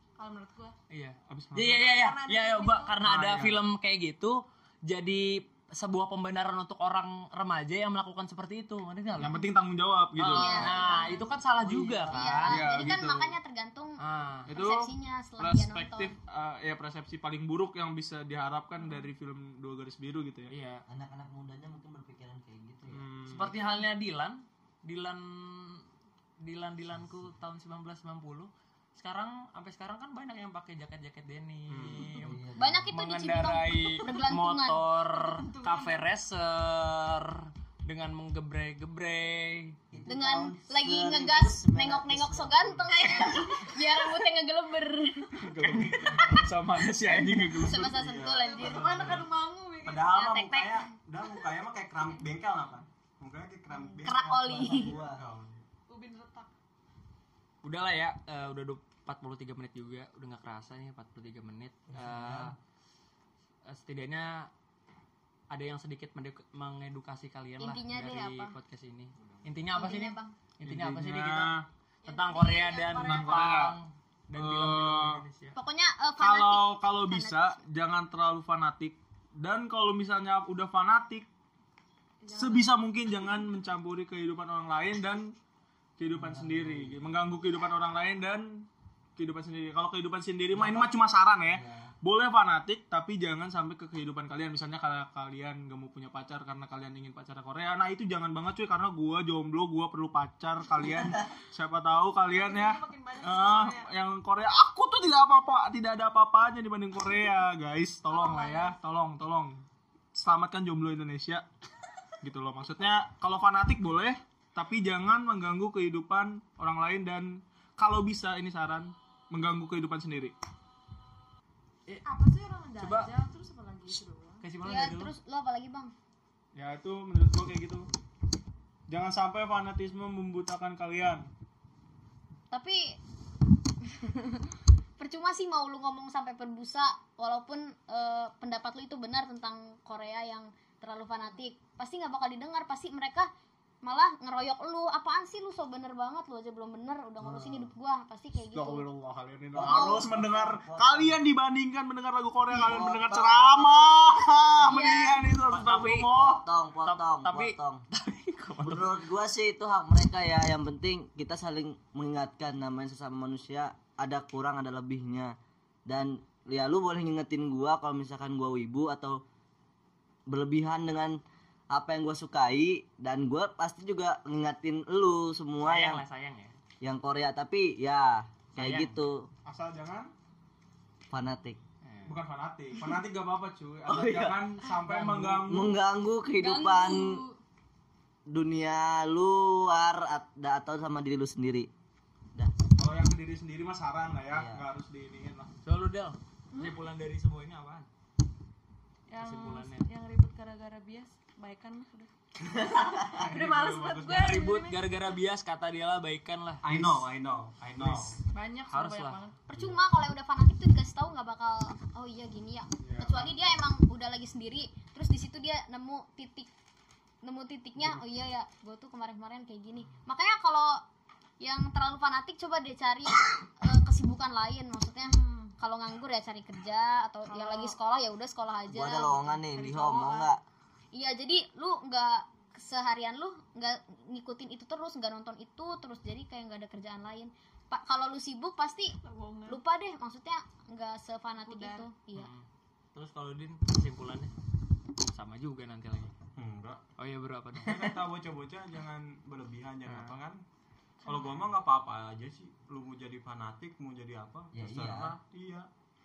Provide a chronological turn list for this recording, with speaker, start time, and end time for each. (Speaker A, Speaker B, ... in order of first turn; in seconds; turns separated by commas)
Speaker A: 0.2-0.8, Speaker B: 0.9-9.5, Speaker C: 1.3-1.8, Speaker A: 1.7-3.1, Speaker C: 3.0-3.6, Speaker C: 9.2-10.7, Speaker B: 10.2-12.9, Speaker D: 10.3-11.2, Speaker A: 10.6-11.4, Speaker D: 12.1-16.1, Speaker C: 12.5-13.4, Speaker B: 14.0-14.5, Speaker C: 14.5-20.5, Speaker B: 20.5-20.8, Speaker E: 20.9-23.1, Speaker C: 22.9-23.6, Speaker B: 23.3-25.9, Speaker B: 26.4-39.8, Speaker C: 31.7-32.1, Speaker E: 32.2-32.9, Speaker D: 32.6-34.9, Speaker A: 35.1-36.0, Speaker E: 39.9-43.3, Speaker D: 40.1-46.5, Speaker C: 45.4-47.9, Speaker D: 47.5-49.2, Speaker F: 47.8-49.3, Speaker A: 48.4-50.1, Speaker F: 49.8-55.7, Speaker D: 50.0-50.9, Speaker D: 54.0-55.0, Speaker E: 54.4-55.3, Speaker A: 55.9-56.5, Speaker B: 57.6-62.5, Speaker E: 61.9-62.5, Speaker B: 63.7-64.5, Speaker B: 65.5-75.6, Speaker D: 67.6-68.5, Speaker D: 69.7-70.3, Speaker C: 70.6-71.7, Speaker A: 72.0-73.6, Speaker C: 73.0-73.8, Speaker C: 74.3-75.2, Speaker D: 75.5-77.6, Speaker C: 76.2-81.3, Speaker A: 82.2-83.5, Speaker C: 82.3-85.4, Speaker C: 86.0-111.5, Speaker E: 86.1-87.1, Speaker E: 90.5-91.9, Speaker A: 102.2-103.9, Speaker A: 108.1-108.8, Speaker C: 112.2-120.3, Speaker A: 122.0-124.5, Speaker B: 122.8-123.1, Speaker B: 124.4-125.1, Speaker D: 124.6-125.9, Speaker C: 126.5-127.9, Speaker C: 128.9-131.3, Speaker D: 132.5-133.0, Speaker D: 133.8-134.4, Speaker D: 135.0-143.3, Speaker D: 143.8-148.9, Speaker E: 147.2-147.7, Speaker C: 148.5-156.4, Speaker E: 149.5-151.2, Speaker D: 149.6-150.0, Speaker E: 152.5-154.0, Speaker D: 154.6-155.4, Speaker B: 155.5-156.1, Speaker E: 156.0-157.8, Speaker B: 156.8-159.1, Speaker E: 158.6-165.3, Speaker E: 165.9-169.2, Speaker E: 170.3-171.2, Speaker E: 171.7-176.0, Speaker B: 175.6-176.6, Speaker E: 176.8-179.3, Speaker B: 178.6-178.9, Speaker C: 179.4-180.1, Speaker E: 181.1-181.6, Speaker B: 181.8-182.2, Speaker C: 182.1-185.8, Speaker E: 183.9-184.5, Speaker B: 184.8-185.5, Speaker E: 185.5-187.2, Speaker A: 186.3-187.4, Speaker E: 188.3-191.7, Speaker C: 192.8-195.5, Speaker E: 194.3-194.7, Speaker B: 195.6-197.9, Speaker A: 196.5-196.8, Speaker A: 199.1-202.1, Speaker B: 199.2-199.9, Speaker E: 202.4-203.2, Speaker A: 203.1-205.0, Speaker B: 203.3-206.8, Speaker F: 203.4-203.7, Speaker F: 206.6-208.2, Speaker C: 207.8-208.2, Speaker A: 208.3-209.4, Speaker B: 208.7-209.2, Speaker D: 209.5-216.5, Speaker C: 212.8-213.3, Speaker D: 217.2-220.8, Speaker D: 221.4-229.3, Speaker A: 225.0-225.5, Speaker A: 227.2-227.8, Speaker E: 228.7-230.4, Speaker A: 229.4-230.3, Speaker D: 230.9-242.3, Speaker A: 239.0-239.6, Speaker A: 241.4-241.9, Speaker B: 242.2-244.3, Speaker B: 245.0-246.1, Speaker F: 246.4-246.8, Speaker B: 247.0-248.0, Speaker F: 247.6-250.4, Speaker B: 249.9-250.2, Speaker F: 251.0-255.7, Speaker E: 254.5-255.2